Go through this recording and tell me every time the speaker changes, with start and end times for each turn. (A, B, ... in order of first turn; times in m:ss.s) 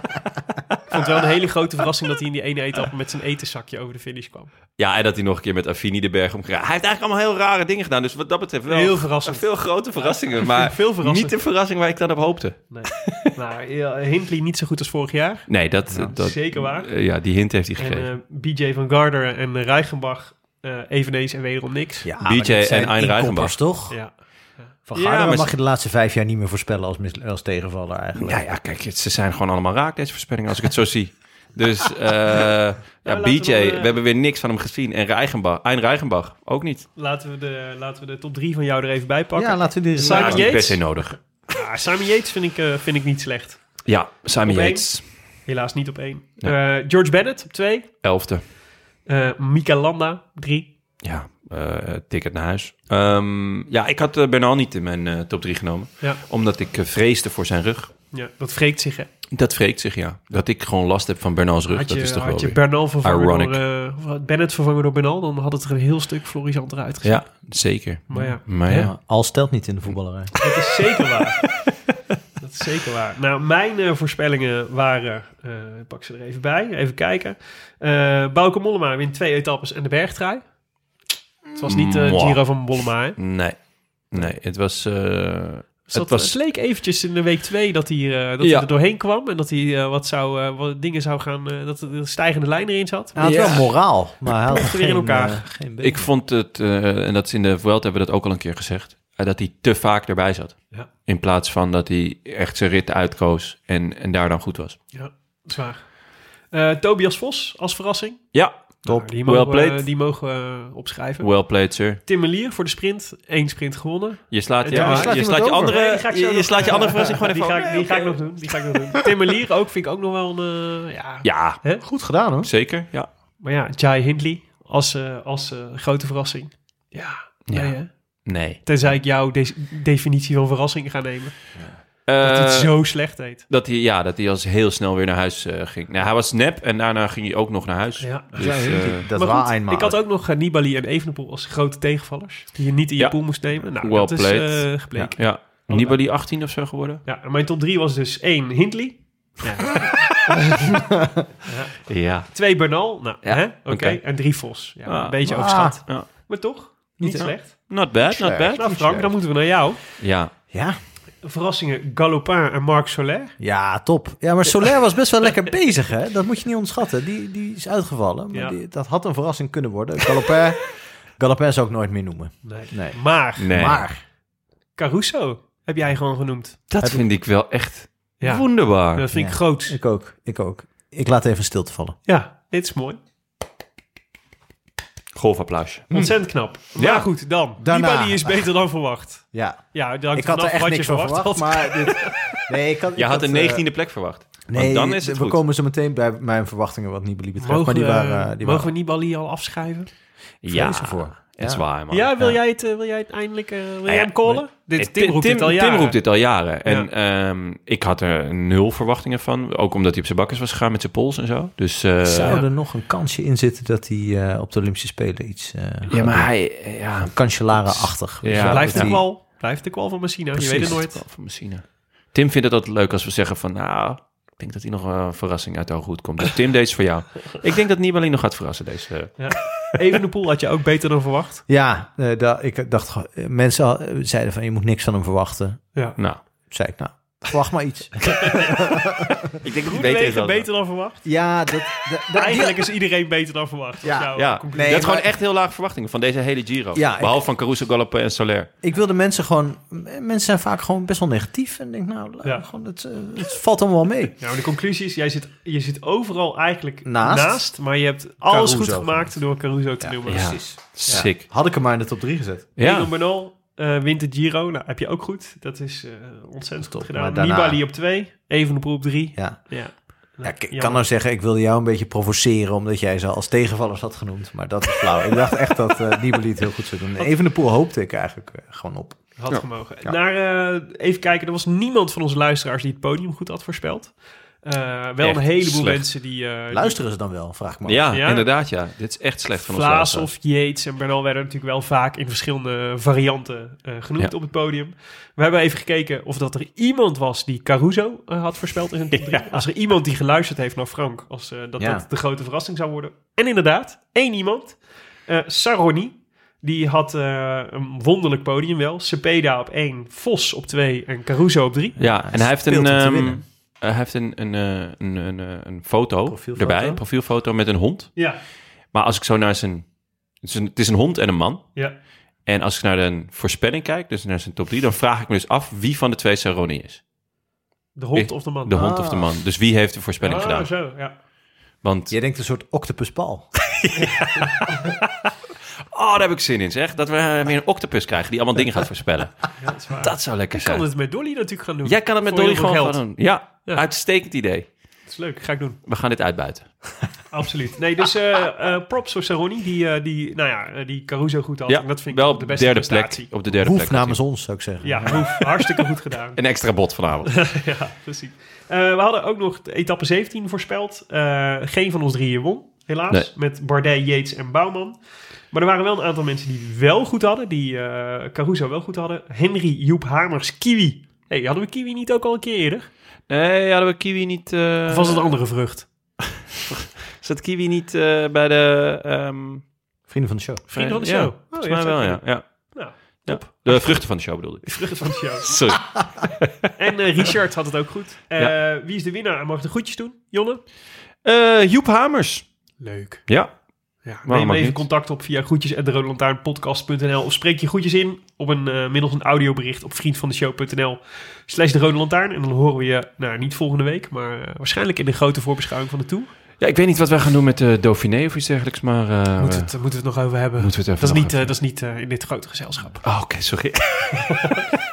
0:00.9-0:04.5 A
0:04.8-0:13.3 B
0:08.7-0:11.4 A
0:12.7-0:15.5 A
0:15.5-0:18.1 B
0:16.1-0:16.9 A
0:17.8-0:22.1 A
0:22.0-0:24.0 C
0:22.2-0:23.6 B
0:23.9-0:24.7 A
0:24.9-0:28.4 C
0:24.9-0:25.5 B
0:28.2-0:36.9 B
0:33.0-0:34.0 A
0:37.0-0:43.8 A
0:39.4-0:40.7 C
0:40.0-0:41.2 B
0:43.8-0:45.0 B
0:44.4-0:44.9 A
0:45.4-0:47.9 A
0:48.0-0:48.4 B
0:49.0-0:50.7 A
0:51.0-0:57.9 B
0:58.1-0:59.1 A
0:59.3-1:03.6 B
1:01.7-1:07.2 A
1:07.0-1:08.9 B
1:08.1-1:08.9 A
1:08.1-1:10.3 C
1:10.4-1:11.4 A
1:12.4-1:20.4 A
1:21.5-1:26.4 B
1:21.6-1:23.2 A
1:25.9-1:33.2 A
1:28.4-1:28.7 B
1:33.1-1:36.1 C
1:33.2-1:33.8 B
1:34.5-1:35.4 A
1:35.8-1:44.8 B
1:44.9-1:46.0 A
1:46.5-1:51.4 A
1:48.3-1:49.8 B
1:51.2-1:52.0 B
1:52.0-2:01.8 A
1:54.3-1:58.2 B
1:54.7-1:55.8 C
2:01.2-2:01.6 B
2:01.8-2:02.5 C
2:02.4-2:03.1 B
2:03.4-2:11.4 A
2:07.5-2:08.6 B
2:12.0-2:12.9 B
2:12.2-2:13.4 A
2:13.5-2:19.1 B
2:18.0-2:26.0 A
2:18.4-2:20.0 C
2:23.0-2:27.0 B
2:27.0-2:30.3 A
2:31.4-2:37.8 A
2:31.9-2:32.5 B
2:33.2-2:34.0 B
2:34.8-2:36.1 B
2:35.2-2:35.8 C
2:37.0-2:39.2 C
2:37.7-2:38.6 B
2:38.6-2:39.8 A
2:40.0-2:40.3 B
2:40.5-2:40.8 C
2:41.2-2:43.3 A
2:43.4-2:54.0 C
2:48.3-2:48.6 A
2:52.4-2:53.5 A
2:53.4-2:53.8 B
2:54.8-2:56.6 A
2:56.7-2:59.1 B
2:58.2-2:59.8 A
2:59.1-3:02.0 C
3:02.0-3:03.0 A
3:05.1-3:05.9 B
3:05.9-3:06.1 C
3:05.9-3:12.2 A
3:06.8-3:07.1 B
3:07.6-3:08.5 C
3:09.3-3:13.6 C
3:13.0-3:15.4 B
3:14.5-3:18.7 C
3:17.4-3:19.9 A
3:20.4-3:22.2 B
3:20.4-3:21.6 C
3:21.9-3:26.0 A
3:23.9-3:32.4 B
3:32.0-3:36.5 C
3:35.9-3:39.0 B
3:37.0-3:39.0 C
3:38.4-3:41.0 A
3:40.4-3:49.7 B
3:49.2-3:51.4 A
3:51.5-3:55.6 C
3:56.5-3:59.3 C
3:59.4-4:00.5 B
3:59.7-4:01.0 A
4:01.0-4:02.6 C
4:02.1-4:04.9 A
4:03.8-4:05.1 C
4:04.2-4:08.5 B
4:06.7-4:07.2 C
4:08.6-4:14.2 C
4:12.2-4:12.5 A
4:14.2-4:21.0 A
4:16.8-4:17.5 C
4:18.2-4:19.2 C
4:19.8-4:22.5 C
4:20.1-4:21.3 B
4:22.6-4:22.9 B
4:22.6-4:30.8 A
4:26.6-4:27.6 C
4:29.2-4:39.2 C
4:39.2-4:46.8 A
4:45.0-4:45.9 B
4:46.5-4:47.9 C
4:47.6-4:50.1 B
4:47.9-4:48.2 A
4:49.4-5:11.8 A
4:58.9-4:59.4 B
5:01.6-5:01.8 C
5:11.8-5:13.2 C
5:11.8-5:18.0 B
5:16.0-5:16.8 C
5:18.7-5:19.7 B
5:20.2-5:21.5 B
5:22.2-5:26.8 B
5:27.8-5:28.6 A
5:27.9-5:30.5 B
5:28.5-5:29.1 C
5:30.0-5:30.9 A
5:31.6-5:31.9 B
5:31.9-5:33.3 C
5:33.5-5:34.5 B
5:33.7-5:34.6 A
5:35.7-5:40.7 B
5:39.4-5:42.8 A
5:41.6-5:44.5 B
5:44.8-5:45.6 A
5:45.6-5:46.5 B
5:47.1-5:53.1 A
5:51.5-5:54.1 B
5:53.3-5:55.1 C
5:54.6-5:56.2 A
5:56.2-5:57.3 B
5:57.1-6:04.8 A
6:05.3-6:12.7 A
6:13.1-6:15.1 B
6:14.7-6:15.7 A
6:16.5-6:19.4 B
6:19.9-6:20.4 C
6:20.5-6:25.3 A
6:20.5-6:26.3 B
6:26.6-6:30.4 A
6:31.0-6:32.3 B
6:32.6-6:33.1 A
6:33.1-6:33.3 B
6:33.8-6:46.1 A
6:34.0-6:34.6 B
6:46.4-6:49.6 B
6:49.2-6:52.9 A
6:50.4-6:51.3 B
6:52.8-6:54.3 B